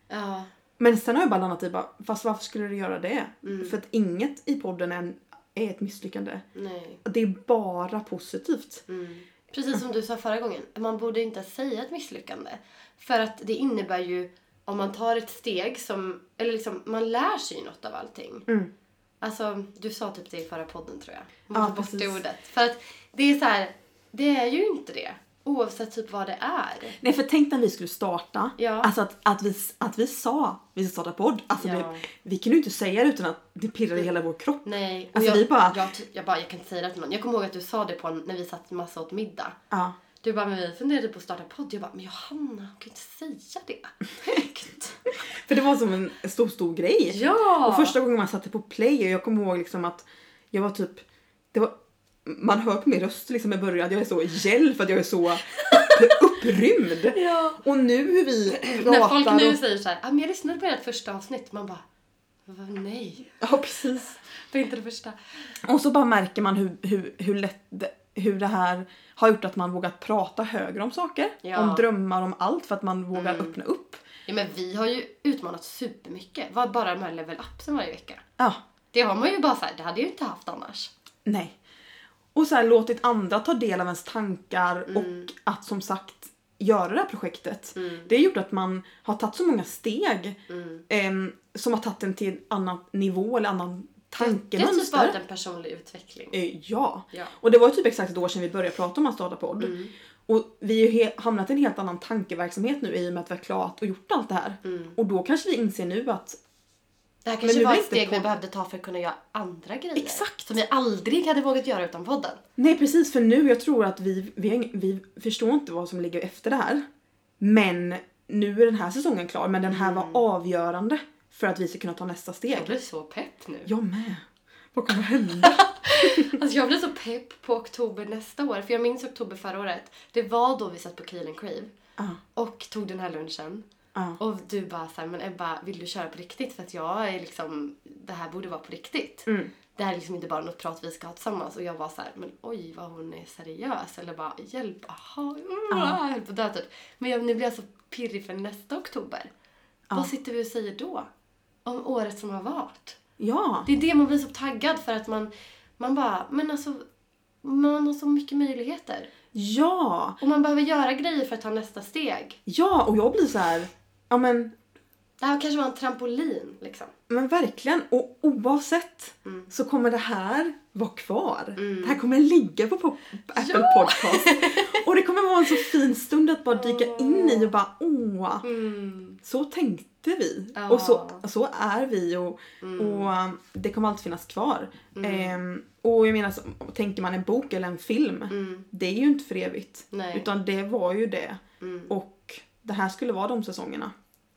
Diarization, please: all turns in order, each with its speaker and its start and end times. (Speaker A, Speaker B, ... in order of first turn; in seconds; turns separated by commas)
Speaker A: 0.1-0.5, Speaker B: 0.8-6.4, Speaker A: 3.4-3.7, Speaker A: 6.5-7.0, Speaker B: 7.0-8.8, Speaker A: 8.9-18.5, Speaker A: 19.2-27.0, Speaker B: 21.5-22.2, Speaker B: 27.0-35.8, Speaker A: 28.6-28.9, Speaker A: 31.6-32.0, Speaker A: 34.6-39.6, Speaker B: 39.7-40.0, Speaker A: 40.2-45.0, Speaker B: 45.3-59.6, Speaker A: 47.1-48.0, Speaker A: 55.6-56.2, Speaker A: 57.1-57.6, Speaker A: 58.7-61.8, Speaker A: 62.5-63.4, Speaker B: 63.4-64.2, Speaker A: 64.3-65.2, Speaker B: 65.6-74.0, Speaker A: 71.4-71.8, Speaker A: 73.1-73.5, Speaker A: 74.2-78.2, Speaker A: 78.9-80.9, Speaker B: 81.2-81.6, Speaker B: 82.3-90.4, Speaker A: 84.9-85.3, Speaker A: 87.8-88.1, Speaker A: 90.5-90.8, Speaker B: 90.9-95.2, Speaker A: 94.2-96.4, Speaker B: 96.3-99.8, Speaker A: 99.6-99.9, Speaker B: 100.3-106.4, Speaker A: 104.6-105.0, Speaker A: 107.2-112.4, Speaker B: 107.4-108.3, Speaker B: 110.0-110.5, Speaker B: 112.6-116.8, Speaker B: 117.4-122.8, Speaker A: 119.6-120.2, Speaker A: 122.5-123.7, Speaker B: 123.7-126.3, Speaker A: 125.3-131.7, Speaker A: 132.3-133.7, Speaker B: 133.9-134.2, Speaker A: 134.2-149.3, Speaker B: 139.3-139.5, Speaker B: 145.7-146.0, Speaker A: 149.9-151.1, Speaker A: 151.6-153.0, Speaker B: 153.2-153.7, Speaker A: 153.7-156.8, Speaker A: 157.4-159.1, Speaker B: 159.3-160.2, Speaker A: 160.2-162.4, Speaker B: 162.5-164.5, Speaker A: 165.2-166.9, Speaker B: 167.1-178.4, Speaker A: 169.2-169.5, Speaker A: 171.6-172.0, Speaker A: 173.3-174.8, Speaker A: 176.5-177.5, Speaker A: 178.4-179.2, Speaker B: 179.2-193.9, Speaker A: 180.6-181.2, Speaker A: 182.6-183.1, Speaker A: 184.9-185.3, Speaker A: 188.3-188.7, Speaker A: 189.9-190.3, Speaker A: 191.6-191.9